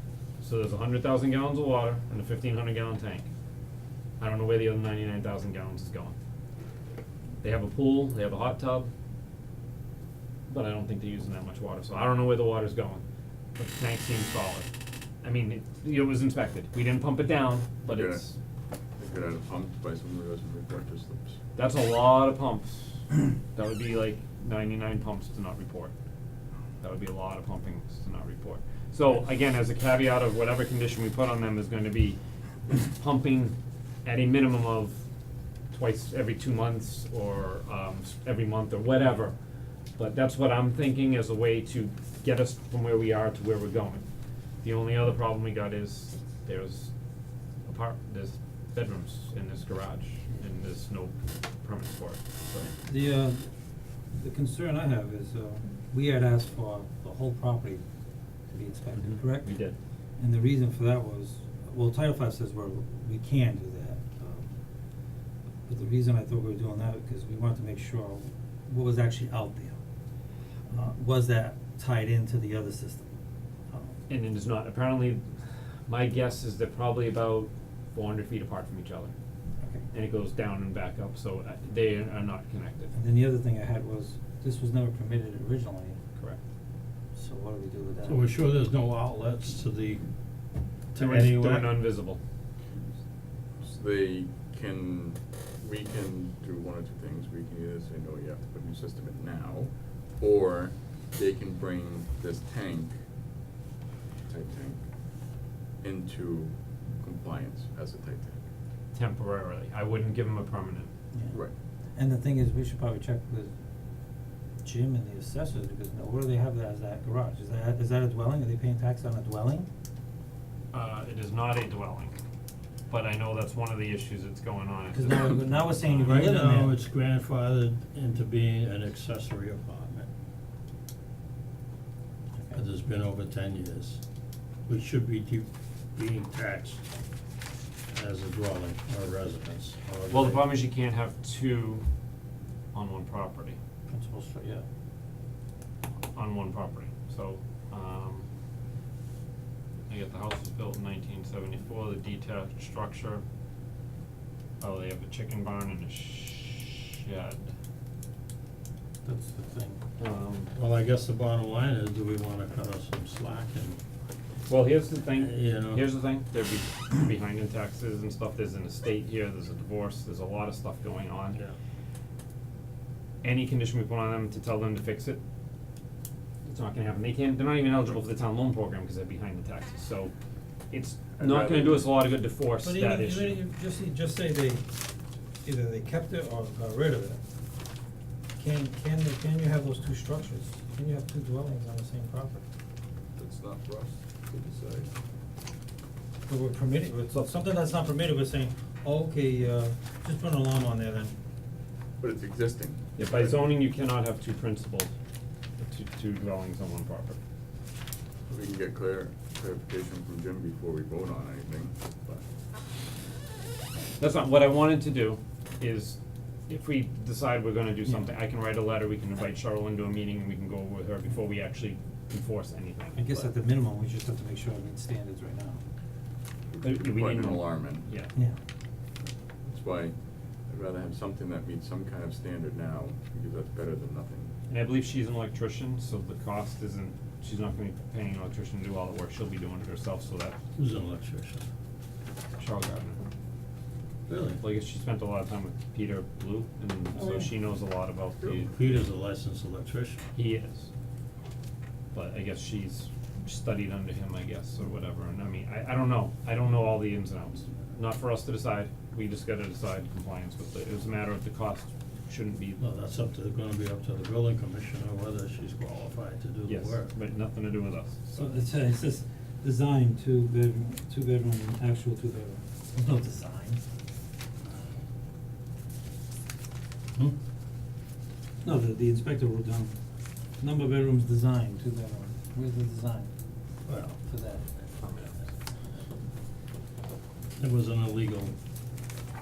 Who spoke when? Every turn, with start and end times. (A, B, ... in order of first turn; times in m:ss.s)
0:00.4-0:03.3 A
0:04.2-0:06.2 A
0:07.4-0:08.9 A
0:10.5-0:13.0 A
0:13.5-0:14.7 A
0:15.2-0:18.4 A
0:17.8-0:18.3 B
0:19.0-0:21.4 B
0:21.5-0:25.9 A
0:26.8-0:35.0 A
0:35.7-0:39.3 A
0:40.0-0:44.0 A
0:44.6-0:46.9 A
0:47.6-0:52.7 A
0:52.8-0:53.4 C
0:54.1-0:57.8 C
0:58.5-0:59.5 C
0:58.9-0:59.8 A
1:00.2-1:04.5 C
1:05.7-1:09.8 C
1:10.7-1:13.1 C
1:13.7-1:14.0 C
1:14.1-1:15.2 A
1:15.9-1:19.1 A
1:19.6-1:19.8 C
1:19.9-1:22.9 A
1:22.9-1:26.0 C
1:27.1-1:28.2 C
1:28.0-1:30.0 D
1:30.9-1:31.9 D
1:30.9-1:32.2 A
1:33.6-1:43.0 B
1:44.3-1:44.8 B
1:45.8-1:48.4 B
1:48.9-1:50.9 A
1:51.1-1:51.4 C
1:51.9-1:53.5 C
1:54.6-1:59.7 C
2:00.7-2:02.2 A
2:02.9-2:06.4 A
2:04.9-2:06.7 C
2:06.0-2:10.1 D
2:12.5-2:14.0 D
2:14.7-2:16.9 D
2:17.9-2:20.6 D
2:20.1-2:21.8 A
2:22.7-2:23.6 A
2:23.9-2:24.6 D
2:26.1-2:28.2 A
2:29.9-2:33.2 A
2:34.6-2:37.5 A
2:39.0-2:39.8 D
2:40.0-2:40.5 A
2:40.5-2:43.8 D
2:44.5-2:51.4 A
2:45.1-2:45.8 D
2:53.2-2:55.2 A
2:56.4-3:00.1 A
3:00.7-3:03.4 A
3:01.2-3:01.9 B
3:02.6-3:04.7 C
3:05.4-3:07.2 C
3:08.4-3:12.4 C
3:13.2-3:14.9 B
3:16.3-3:21.1 C
3:22.0-3:23.5 B
3:23.0-3:24.9 A
3:25.6-3:27.2 A
3:28.3-3:32.2 B
3:34.0-3:43.3 A
3:43.0-3:45.6 C
3:46.5-3:47.9 B
3:46.6-3:48.1 A
3:49.4-3:49.9 B
3:50.5-3:54.3 B
3:54.5-4:00.4 A
4:00.6-4:01.5 D
4:02.4-4:03.0 A
4:04.1-4:04.4 D
4:04.4-4:08.5 A
4:06.9-4:07.2 C
4:08.2-4:10.0 D
4:10.1-4:10.7 A
4:11.9-4:22.6 A
4:22.6-4:26.9 D
4:26.4-4:28.3 A
4:28.2-4:33.6 C
4:38.4-4:39.7 C
4:40.4-4:43.1 C
4:43.6-4:44.0 D
4:44.0-4:45.2 C
4:47.4-4:48.3 D